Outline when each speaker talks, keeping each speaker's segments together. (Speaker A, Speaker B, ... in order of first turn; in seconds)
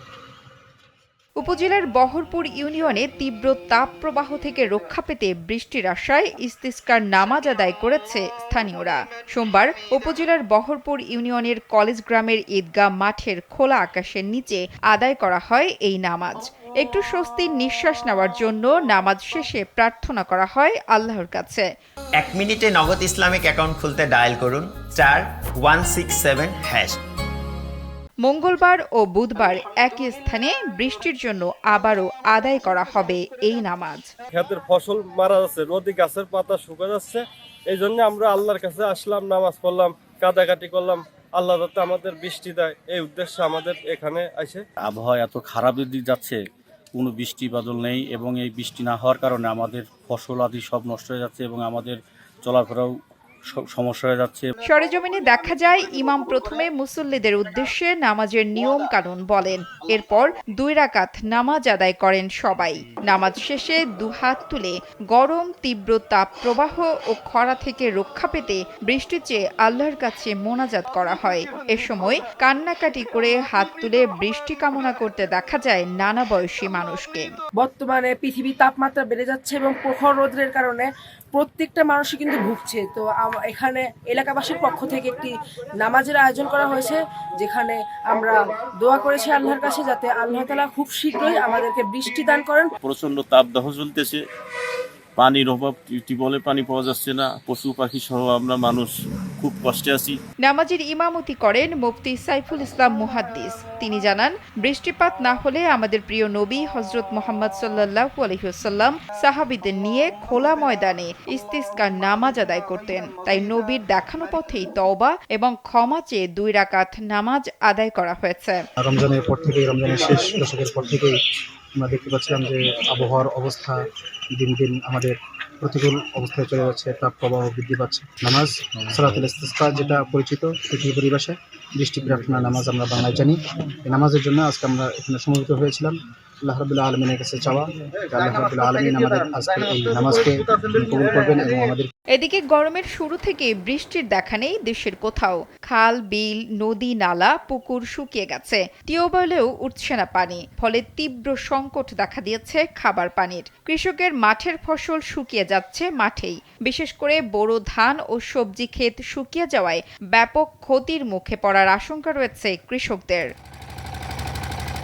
Speaker A: 1.4-21.7, 28.2-34.1, 54.6-77.3, 100.4-118.6, 142.1-163.3
Speaker B: 22.2-27.0
Speaker C: 34.3-44.6
Speaker D: 44.8-46.4, 47.0-52.9, 53.5-54.5
Speaker E: 77.6-92.7
Speaker F: 92.8-94.2, 95.2-100.2
Speaker G: 118.8-121.2, 121.8-123.8, 124.4-141.9